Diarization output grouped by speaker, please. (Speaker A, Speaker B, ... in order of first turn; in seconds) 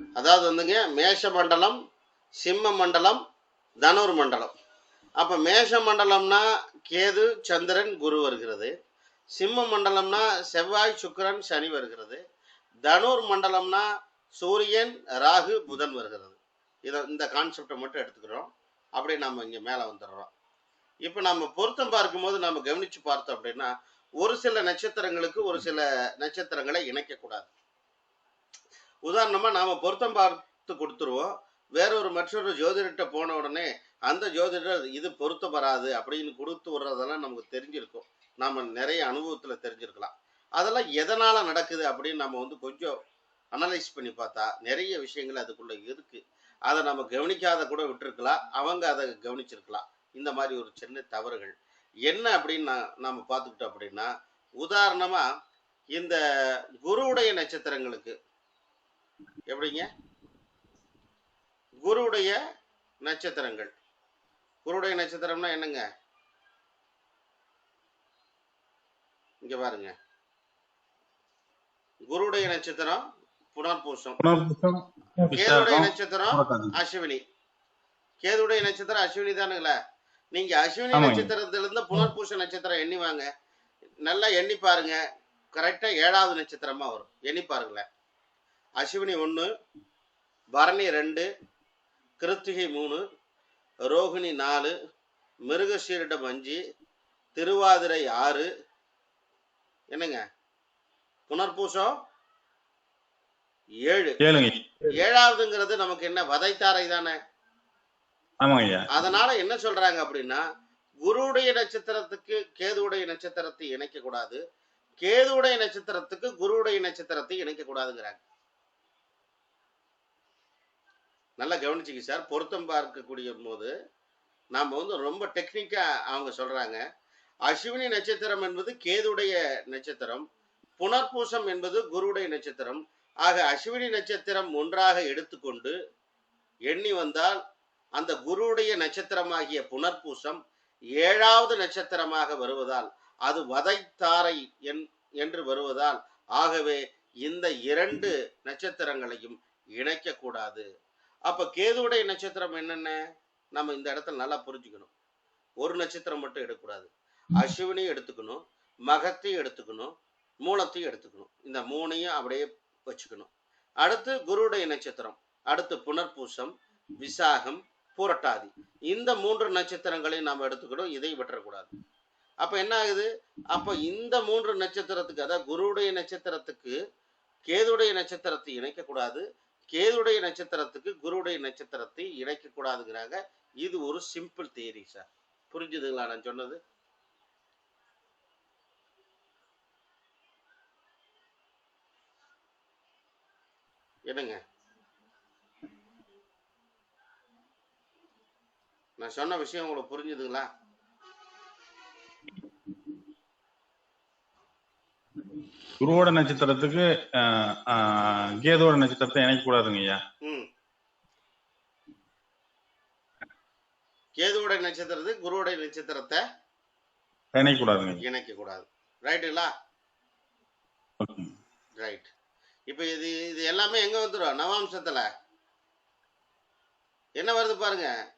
Speaker A: 0.2-1.8, 2.4-3.2, 3.8-4.5, 5.2-8.7, 9.3-12.2, 12.8-20.3, 21.0-27.5, 29.1-42.9, 43.5-55.2, 56.8-58.1, 59.5-59.9, 61.8-62.4, 63.0-63.7, 64.6-65.8, 69.4-69.9, 72.0-73.0, 73.5-74.2, 75.3-77.2, 78.2-79.8, 80.3-83.3, 84.0-85.0, 85.5-87.8, 88.8-89.5, 90.5-91.3, 92.2-93.0, 93.9-94.7, 95.5-96.6, 97.3-98.5, 99.9-100.2, 101.3-101.9, 103.8-104.2, 104.9-107.2, 108.9-110.4, 111.0-114.4, 115.0-118.2, 121.4-123.7, 124.5-126.8, 127.5-130.2, 130.8-135.7, 136.7-137.4, 138.0-140.4, 141.0-150.6, 151.3-152.9, 153.5-154.9, 155.6-159.9, 160.4-163.3, 163.8-171.7, 172.4-176.8, 177.5-186.6, 194.1-194.4, 199.0-200.5, 214.2-216.2, 218.0-219.5, 221.8-222.1, 222.7-225.1, 227.2-227.9
Speaker B: 74.2-76.7, 80.9-81.3, 104.2-104.5, 108.4-108.8, 205.8-210.0, 217.3-218.0, 221.0-221.3